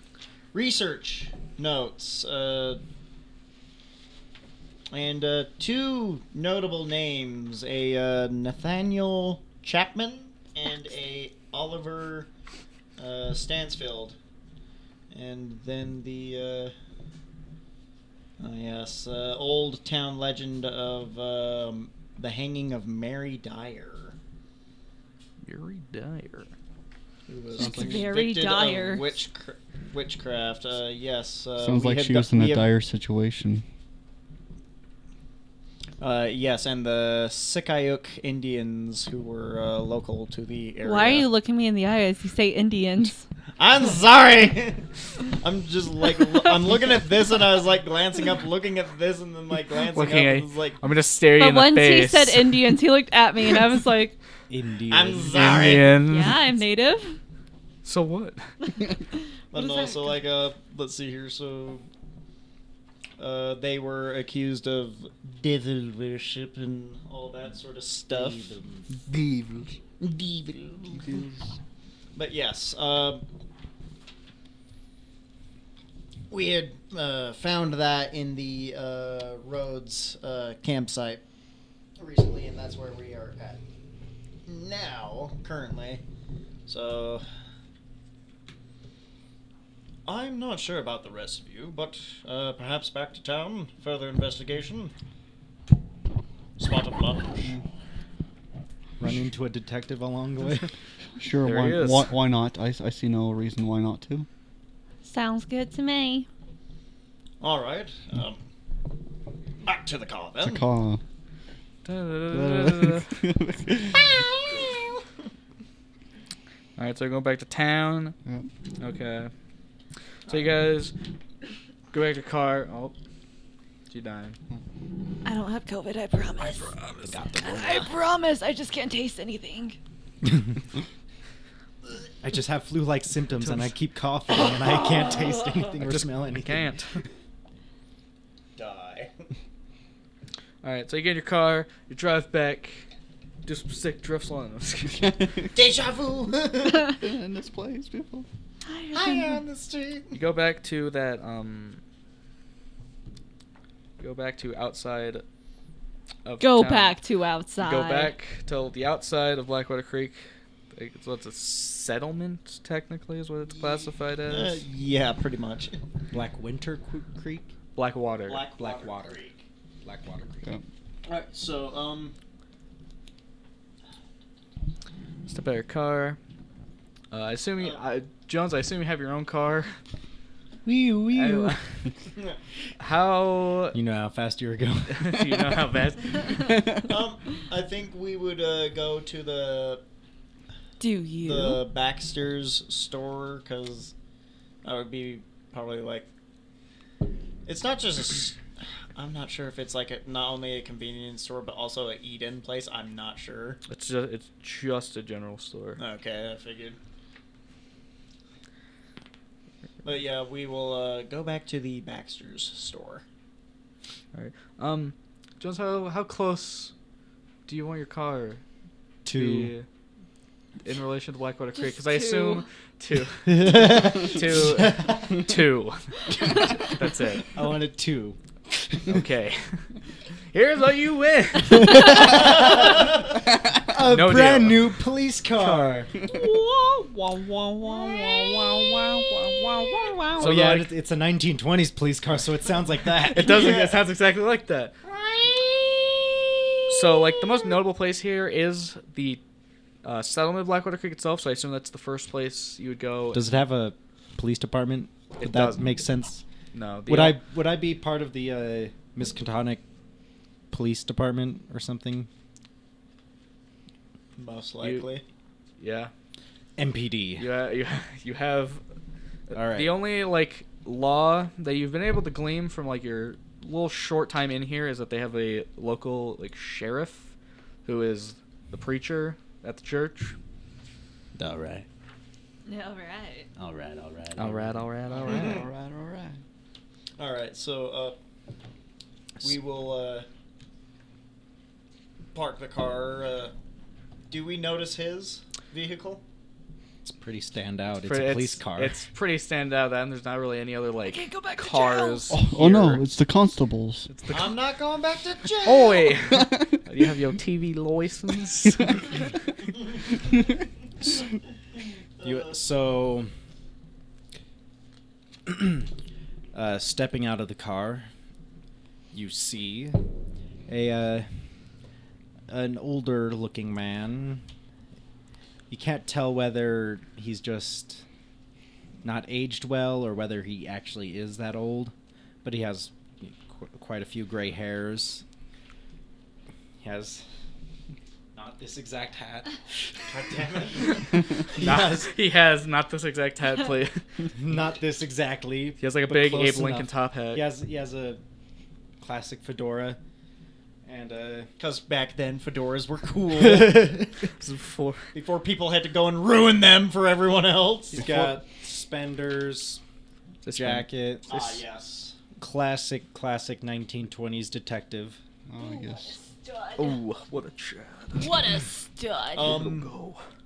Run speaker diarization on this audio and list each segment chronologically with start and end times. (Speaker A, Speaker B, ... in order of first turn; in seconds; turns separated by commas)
Speaker A: 0.5-2.8, Speaker A: 4.9-12.3, Speaker A: 13.0-14.2, Speaker A: 15.1-16.7, Speaker A: 18.4-24.2, Speaker B: 25.4-26.5, Speaker A: 27.3-32.7, Speaker C: 27.6-28.1, Speaker D: 27.6-29.2, Speaker C: 31.6-33.6, Speaker A: 36.0-41.3, Speaker D: 40.8-43.2, Speaker A: 43.6-50.8, Speaker B: 49.9-52.8, Speaker D: 51.4-54.2, Speaker E: 54.5-55.8, Speaker A: 54.9-56.0, Speaker B: 55.3-56.6, Speaker D: 56.0-57.2, Speaker B: 57.8-58.5, Speaker D: 59.5-60.2, Speaker A: 59.5-61.9, Speaker A: 63.2-68.5, Speaker E: 68.1-68.9, Speaker C: 69.1-69.7, Speaker A: 70.0-71.2, Speaker C: 71.0-71.4, Speaker A: 72.2-73.2, Speaker A: 76.3-81.2, Speaker A: 82.0-83.6, Speaker A: 84.5-86.0, Speaker A: 86.7-87.2, Speaker A: 90.1-94.9, Speaker A: 96.6-97.5, Speaker E: 99.0-100.7, Speaker C: 101.2-104.3, Speaker B: 101.4-102.1, Speaker D: 105.0-106.3, Speaker A: 107.4-108.4, Speaker A: 109.6-110.7, Speaker C: 110.4-111.0, Speaker B: 111.8-113.1, Speaker C: 112.3-114.1, Speaker A: 113.9-115.0, Speaker B: 116.8-118.2, Speaker B: 118.8-119.3, Speaker B: 120.3-120.9, Speaker A: 120.3-120.6, Speaker B: 121.9-123.0, Speaker B: 123.9-124.4, Speaker D: 125.2-126.8, Speaker B: 126.7-127.1, Speaker E: 127.0-127.9, Speaker D: 127.4-129.8, Speaker E: 132.2-136.7, Speaker B: 133.4-133.7, Speaker B: 135.8-137.0, Speaker A: 138.6-139.1, Speaker B: 140.6-142.9, Speaker B: 143.4-145.2, Speaker C: 145.0-145.5, Speaker A: 145.5-146.9, Speaker C: 146.9-148.3, Speaker D: 148.7-149.4, Speaker A: 148.9-150.2, Speaker B: 150.1-151.8, Speaker B: 154.0-155.2, Speaker B: 156.2-157.0, Speaker D: 156.4-158.1, Speaker B: 157.6-164.6, Speaker A: 163.6-165.8, Speaker E: 166.1-167.5, Speaker B: 167.8-168.4, Speaker A: 168.3-169.4, Speaker E: 168.6-169.2, Speaker E: 169.8-170.5, Speaker A: 171.1-172.2, Speaker B: 175.3-176.2, Speaker B: 177.1-179.8, Speaker E: 180.7-181.6, Speaker B: 181.1-181.6, Speaker B: 182.8-183.8, Speaker E: 183.7-185.4, Speaker B: 184.9-186.6, Speaker C: 186.3-186.9, Speaker A: 186.9-189.8, Speaker D: 190.8-191.6, Speaker A: 191.2-193.9, Speaker A: 194.6-196.1, Speaker A: 197.5-198.4, Speaker A: 198.9-203.6, Speaker B: 203.7-205.8, Speaker A: 205.8-206.8, Speaker A: 209.8-213.0, Speaker B: 214.1-216.7, Speaker B: 217.5-218.4, Speaker E: 219.1-219.5, Speaker B: 219.1-219.7, Speaker B: 220.6-227.3, Speaker D: 221.6-222.5, Speaker E: 223.3-225.3, Speaker E: 227.3-228.2, Speaker B: 228.9-229.7, Speaker B: 230.3-232.8, Speaker E: 232.1-232.6, Speaker A: 232.2-232.8, Speaker E: 233.7-235.9, Speaker B: 233.8-234.8, Speaker B: 235.4-240.7, Speaker E: 240.2-243.8, Speaker B: 243.1-244.7, Speaker A: 243.2-243.9, Speaker A: 244.9-246.2, Speaker B: 246.7-249.2, Speaker B: 249.8-253.3, Speaker E: 253.1-256.2, Speaker B: 255.2-255.8, Speaker B: 256.5-257.2, Speaker E: 256.9-259.6, Speaker E: 260.5-262.1, Speaker A: 264.2-265.0, Speaker B: 264.6-264.9, Speaker B: 265.6-265.9, Speaker E: 266.6-267.3, Speaker B: 267.2-268.6, Speaker B: 269.3-277.1, Speaker E: 269.3-269.8, Speaker B: 277.6-280.2, Speaker E: 281.2-281.7, Speaker D: 282.5-283.3, Speaker E: 283.4-284.7, Speaker B: 284.1-285.4, Speaker C: 284.9-286.2, Speaker A: 285.1-285.5, Speaker A: 287.0-288.0, Speaker A: 289.2-290.1, Speaker A: 292.1-293.3, Speaker A: 294.1-296.0, Speaker E: 296.9-298.8, Speaker B: 297.9-302.9, Speaker D: 300.8-302.1, Speaker C: 302.1-303.9, Speaker B: 303.9-304.4, Speaker A: 304.1-306.0, Speaker B: 305.4-309.0, Speaker C: 306.2-306.5, Speaker A: 312.0-312.3, Speaker E: 312.0-313.1, Speaker E: 315.3-315.6, Speaker E: 316.3-317.9, Speaker E: 318.9-319.8, Speaker E: 320.5-321.2, Speaker E: 322.3-324.2, Speaker E: 325.5-327.8, Speaker E: 328.8-331.7, Speaker E: 332.2-335.0, Speaker E: 336.6-337.0, Speaker E: 338.1-339.4, Speaker A: 339.9-340.9, Speaker E: 340.1-340.4, Speaker B: 341.3-343.9, Speaker E: 341.4-341.9, Speaker E: 344.2-348.0, Speaker B: 345.6-347.3, Speaker E: 348.8-349.8, Speaker E: 350.6-351.3, Speaker A: 351.4-354.1, Speaker E: 353.1-353.8, Speaker B: 354.1-354.9, Speaker A: 354.9-358.1, Speaker E: 357.8-359.6, Speaker B: 360.2-360.7, Speaker E: 360.3-361.4, Speaker A: 361.1-362.0, Speaker E: 362.1-365.0, Speaker C: 365.3-366.0, Speaker D: 365.4-366.8, Speaker B: 366.6-368.3, Speaker D: 368.0-369.4, Speaker A: 369.1-369.7, Speaker B: 369.2-370.0